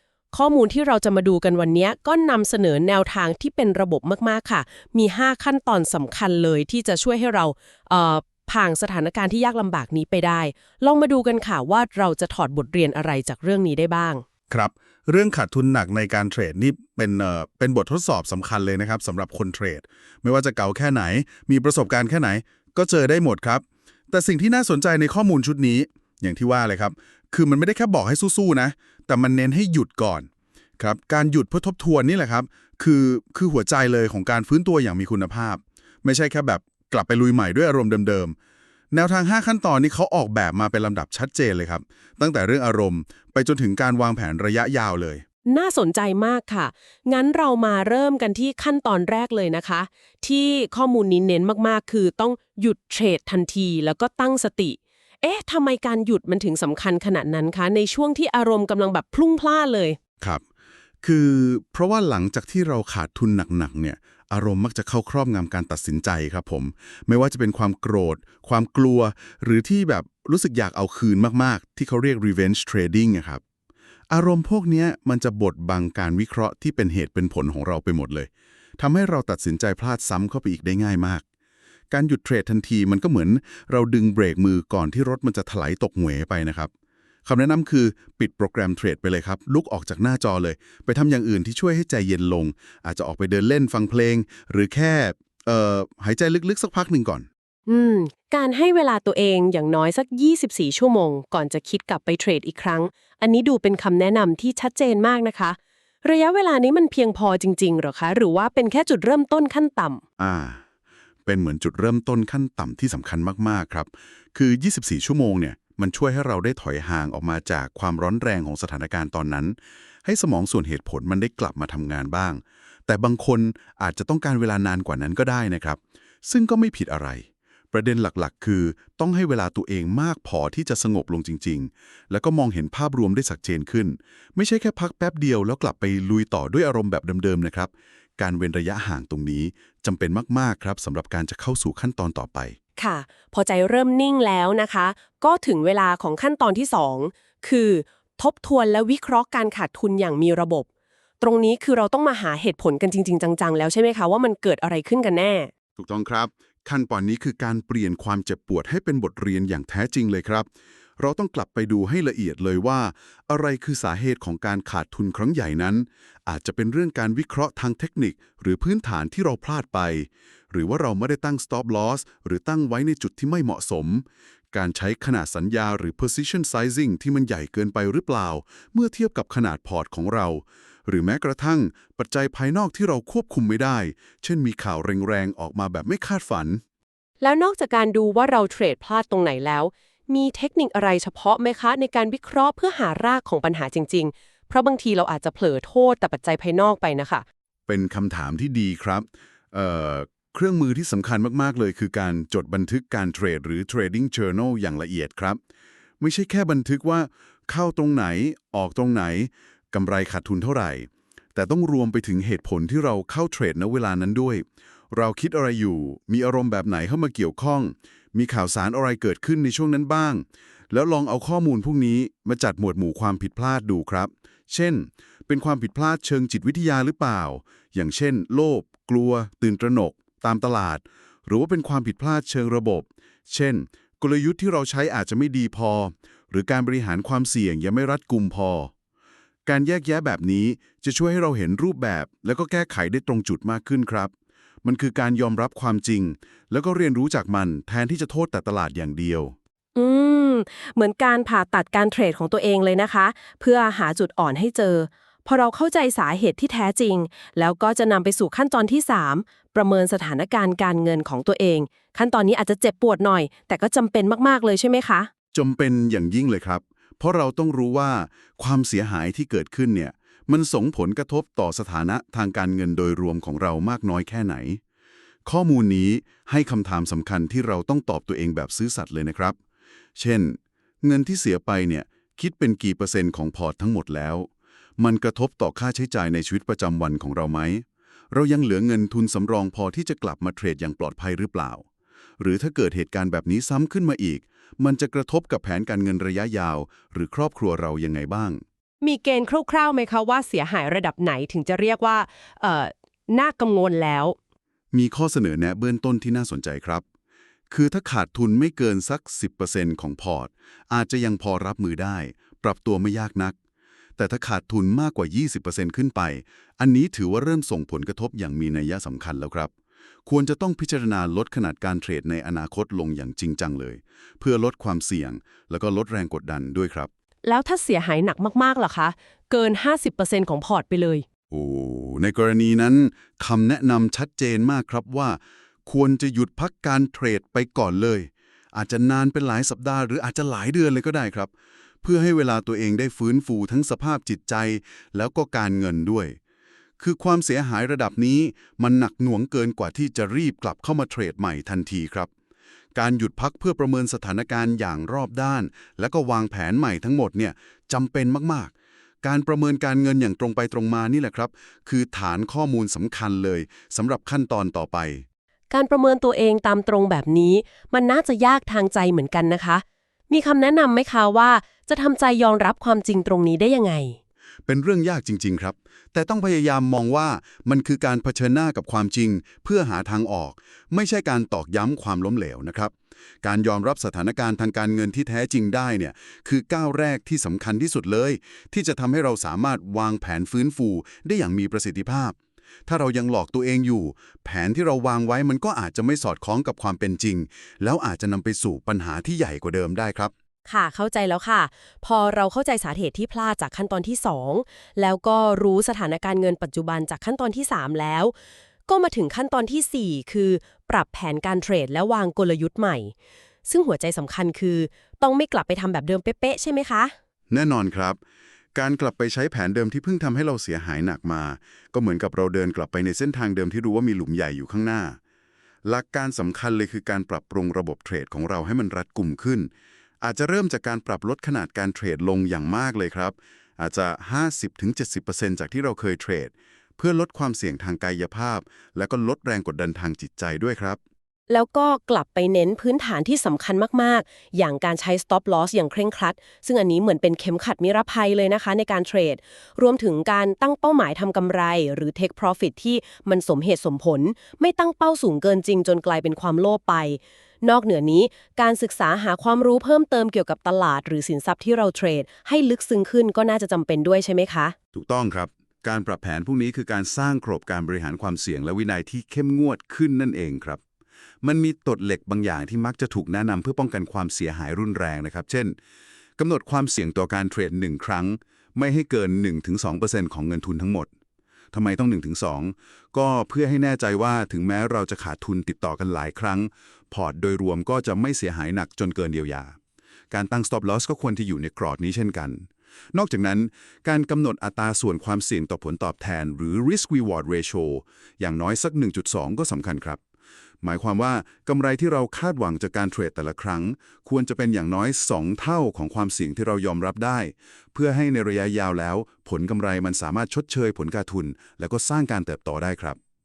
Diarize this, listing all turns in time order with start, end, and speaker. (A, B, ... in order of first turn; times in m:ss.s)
0:00.3-0:14.2 A
0:14.5-0:30.3 B
0:30.8-0:38.4 B
0:38.9-0:45.2 B
0:45.5-1:00.0 A
1:01.0-1:13.4 B
1:14.1-1:21.2 B
1:21.9-1:26.7 B
1:27.2-1:37.3 B
1:37.7-1:50.0 A
1:50.2-1:50.6 B
1:51.3-2:22.6 B
2:22.8-2:30.7 A
2:31.2-2:35.5 A
2:35.8-3:06.6 B
3:07.2-3:17.2 A
3:17.7-3:25.4 B
3:26.0-3:58.7 B
3:59.5-4:04.1 B
4:04.6-4:09.4 B
4:09.8-4:25.1 A
4:25.3-4:34.6 B
4:35.2-4:39.4 B
4:40.0-4:51.7 B
4:52.2-4:58.4 B
4:58.8-5:04.2 A
5:04.7-5:06.8 B
5:07.5-5:13.4 B
5:14.0-5:19.5 B
5:20.1-5:26.9 B
5:27.2-5:31.1 A
5:31.3-5:41.3 B
5:41.8-5:46.2 B
5:46.8-5:52.1 B
5:52.8-6:05.0 B
6:05.5-6:14.0 A
6:14.5-6:32.2 B
6:32.7-6:40.1 B
6:40.5-6:48.1 A
6:48.7-6:52.9 A
6:53.4-6:56.9 A
6:57.3-6:58.0 B
6:58.6-7:05.0 B
7:05.6-7:09.5 B
7:10.0-7:20.8 B
7:21.3-7:44.6 A
7:44.7-7:50.6 B
7:51.2-7:55.6 B
7:56.2-8:00.9 B
8:01.5-8:09.6 B
8:10.1-8:20.0 B
8:20.6-8:33.0 B